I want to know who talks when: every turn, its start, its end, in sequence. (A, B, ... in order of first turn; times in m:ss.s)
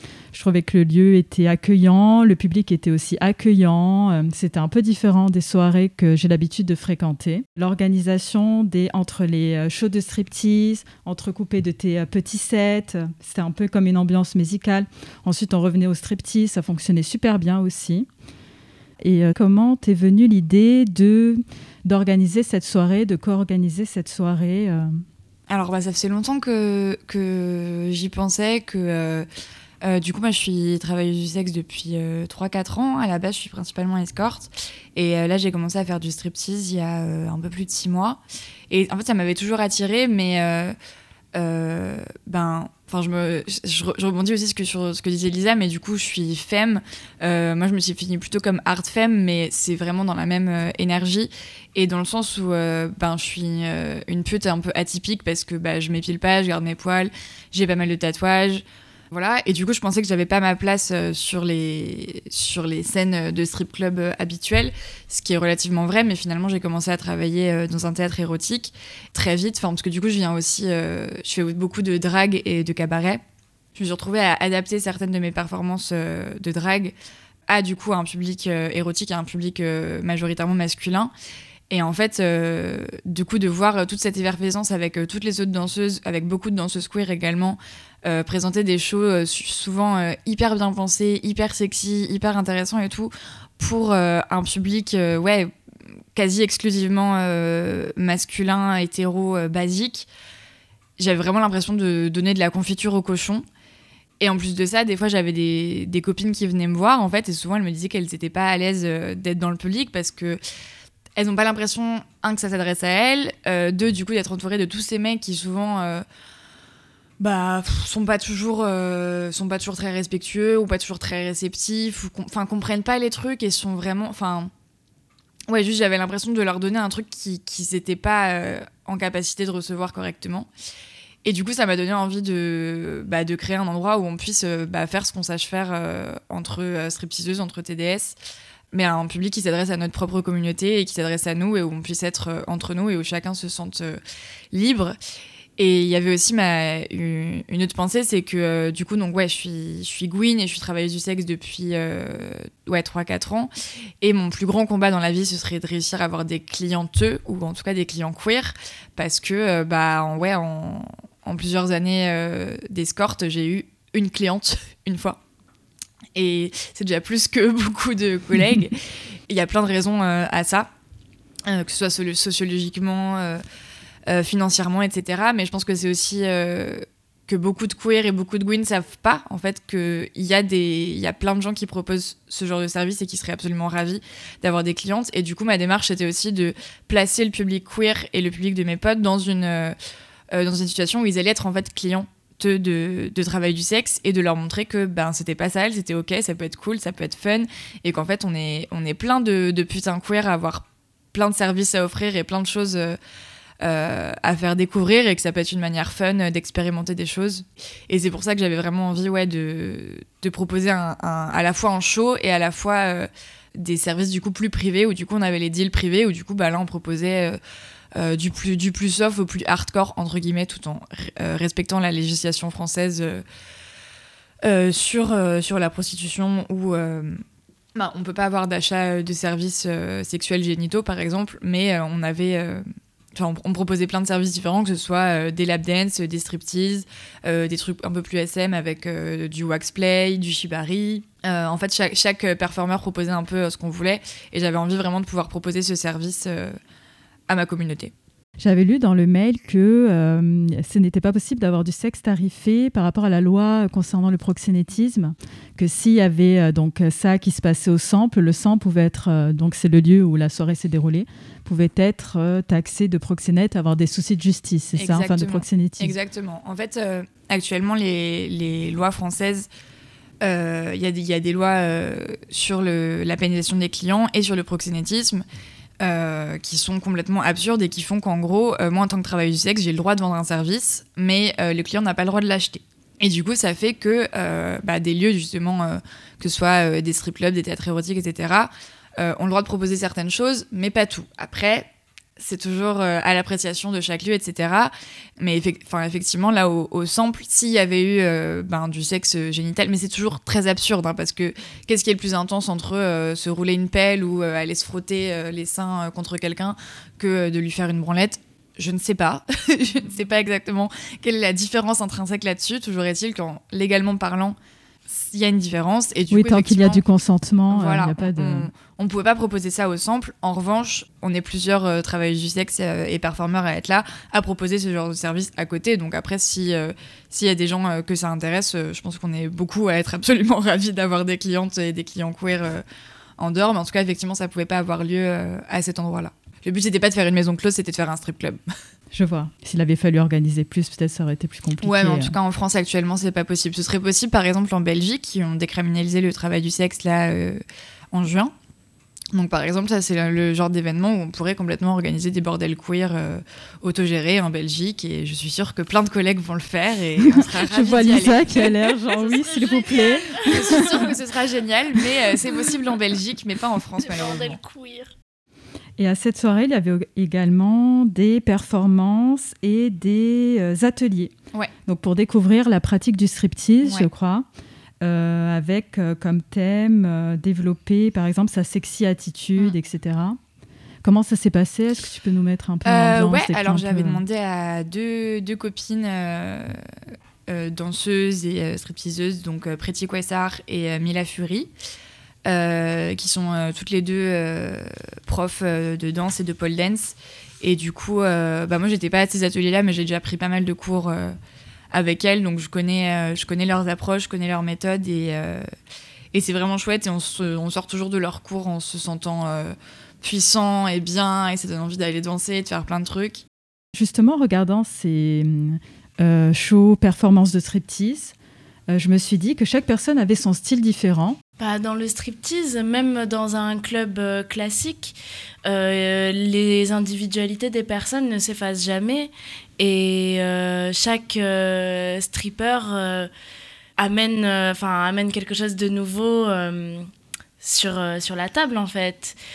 0:00.3-0:18.1 A
0:19.0-0:25.0 A
0:25.5-0:29.3 B
0:29.8-0:40.7 B
0:41.3-1:13.2 B
1:13.7-1:16.9 B
1:17.5-1:21.1 B
1:21.7-1:35.5 B
1:36.1-1:40.1 B
1:41.0-1:43.4 B
1:44.2-1:50.4 B
1:51.2-1:56.0 B
1:57.2-2:04.5 B
2:05.5-2:10.5 B
2:11.2-2:18.2 B
2:18.7-2:24.0 B
2:24.5-2:25.0 B
2:25.6-2:33.5 B
2:34.0-2:45.2 B
2:46.1-2:48.7 B
2:49.3-2:50.7 B
2:51.5-2:53.4 B
2:54.1-3:09.8 B
3:10.3-3:23.0 B
3:23.6-3:37.4 B
3:38.0-3:43.2 B
3:44.4-3:47.2 B
3:47.7-4:06.6 B
4:07.3-4:07.9 B
4:08.4-4:26.0 A
4:24.8-4:29.5 B
4:30.2-4:35.2 B
4:35.8-5:14.4 B
5:14.9-5:16.8 B
5:16.1-5:18.5 A
5:17.5-5:32.6 B
5:33.2-5:38.4 B
5:38.9-5:42.1 A
5:41.6-5:48.3 B
5:49.1-5:58.3 B
5:57.4-6:00.8 A
5:58.4-6:00.8 C
6:00.2-6:04.4 B
6:03.8-6:04.9 C
6:05.8-6:11.1 A
6:11.7-6:14.2 A
6:13.6-6:13.9 B
6:14.8-6:20.2 A
6:20.8-6:24.0 A
6:22.6-6:26.6 B
6:27.3-6:31.5 B
6:32.2-6:41.2 B
6:41.7-6:45.4 B
6:46.1-6:53.2 B
6:53.7-6:58.1 A
6:58.7-7:01.2 A
7:01.4-7:13.1 C
7:13.8-7:16.9 C
7:17.4-7:19.2 C